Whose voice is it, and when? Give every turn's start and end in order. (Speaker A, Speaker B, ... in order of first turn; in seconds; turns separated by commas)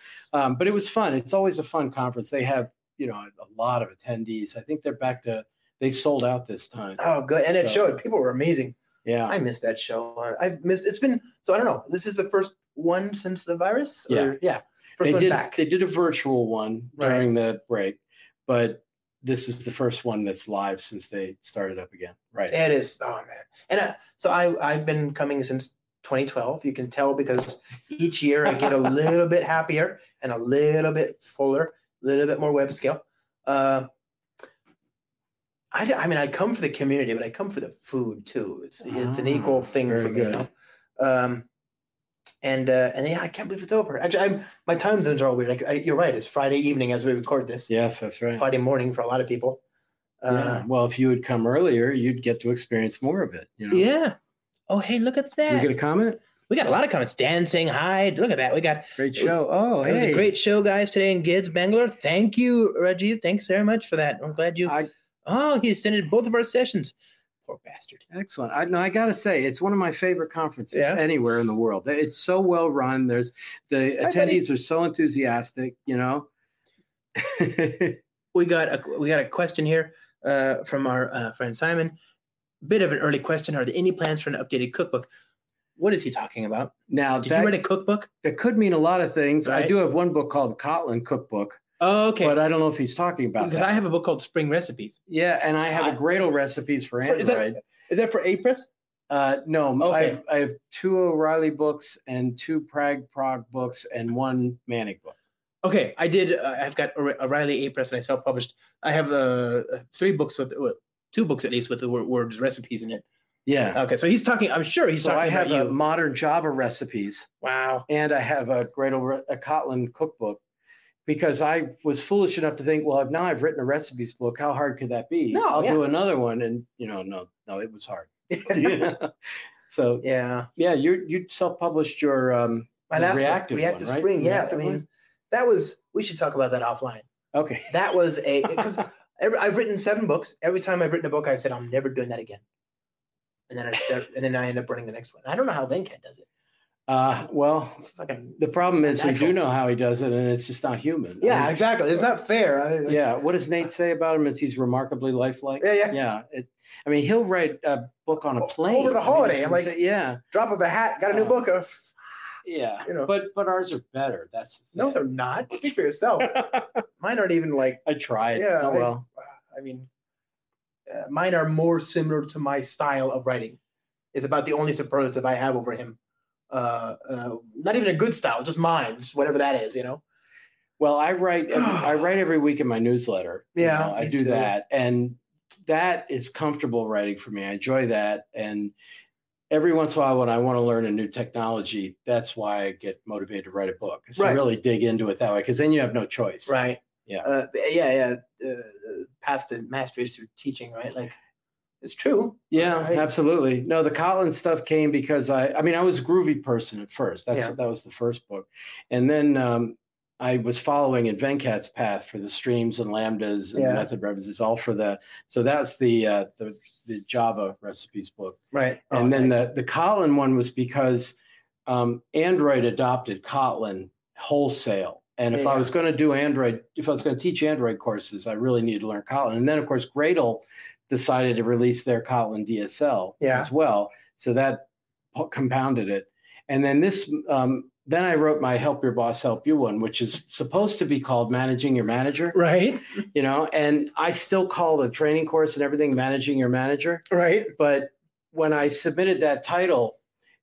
Speaker A: 0.3-7.0, Speaker B: 7.0-15.6, Speaker A: 7.5-7.8, Speaker A: 9.1-9.4, Speaker A: 14.1-14.3, Speaker A: 15.0-22.6, Speaker B: 17.0-17.2, Speaker B: 22.5-33.9, Speaker B: 35.7-41.5, Speaker A: 38.9-40.4, Speaker B: 42.4-47.7, Speaker A: 47.7-48.5, Speaker B: 48.4-49.6, Speaker B: 50.2-50.6, Speaker A: 50.3-53.9, Speaker B: 53.7-54.2, Speaker B: 54.7-55.7, Speaker A: 55.5-56.2, Speaker B: 56.5-68.0, Speaker A: 59.0-60.3, Speaker A: 68.1-76.3, Speaker B: 70.7-71.0, Speaker B: 74.0-74.4, Speaker A: 77.2-78.0, Speaker B: 78.3-82.0, Speaker B: 82.6-85.1, Speaker B: 85.8-88.1, Speaker A: 86.9-87.6, Speaker A: 88.2-91.6, Speaker B: 89.5-89.7, Speaker B: 91.8-92.4, Speaker A: 92.2-93.8, Speaker B: 93.4-95.0, Speaker A: 95.1-97.6, Speaker B: 97.0-98.7, Speaker A: 99.1-105.2, Speaker B: 99.8-100.2, Speaker B: 105.6-113.0, Speaker A: 113.5-113.8, Speaker B: 113.7-115.8, Speaker A: 115.0-117.3, Speaker B: 117.4-117.9, Speaker A: 117.9-120.4, Speaker A: 121.1-129.1, Speaker B: 125.3-125.8, Speaker B: 128.3-128.8, Speaker A: 129.7-134.8, Speaker B: 130.0-130.5, Speaker B: 132.9-137.1, Speaker A: 137.3-137.8, Speaker B: 137.7-142.4, Speaker B: 143.5-146.3, Speaker A: 146.9-151.6, Speaker B: 148.0-149.4, Speaker B: 151.2-153.0, Speaker A: 152.9-160.2, Speaker B: 155.6-156.0, Speaker B: 158.4-159.7, Speaker B: 160.3-162.0, Speaker A: 161.1-161.4, Speaker A: 162.4-165.0, Speaker B: 162.8-163.1, Speaker B: 164.8-167.8, Speaker A: 166.2-166.8, Speaker A: 167.8-169.1, Speaker B: 168.3-169.9, Speaker B: 170.9-173.6, Speaker B: 174.1-176.0, Speaker B: 176.5-180.0, Speaker A: 180.8-188.7, Speaker B: 181.5-181.9, Speaker B: 183.6-184.5, Speaker A: 189.5-196.5, Speaker B: 194.2-194.4, Speaker B: 196.5-201.2, Speaker B: 201.8-203.1, Speaker A: 202.5-221.2, Speaker B: 213.6-213.9, Speaker B: 218.5-219.4, Speaker A: 221.7-242.4, Speaker B: 225.3-225.7, Speaker B: 233.2-233.5, Speaker B: 242.3-242.8, Speaker A: 243.1-250.0, Speaker B: 247.1-247.5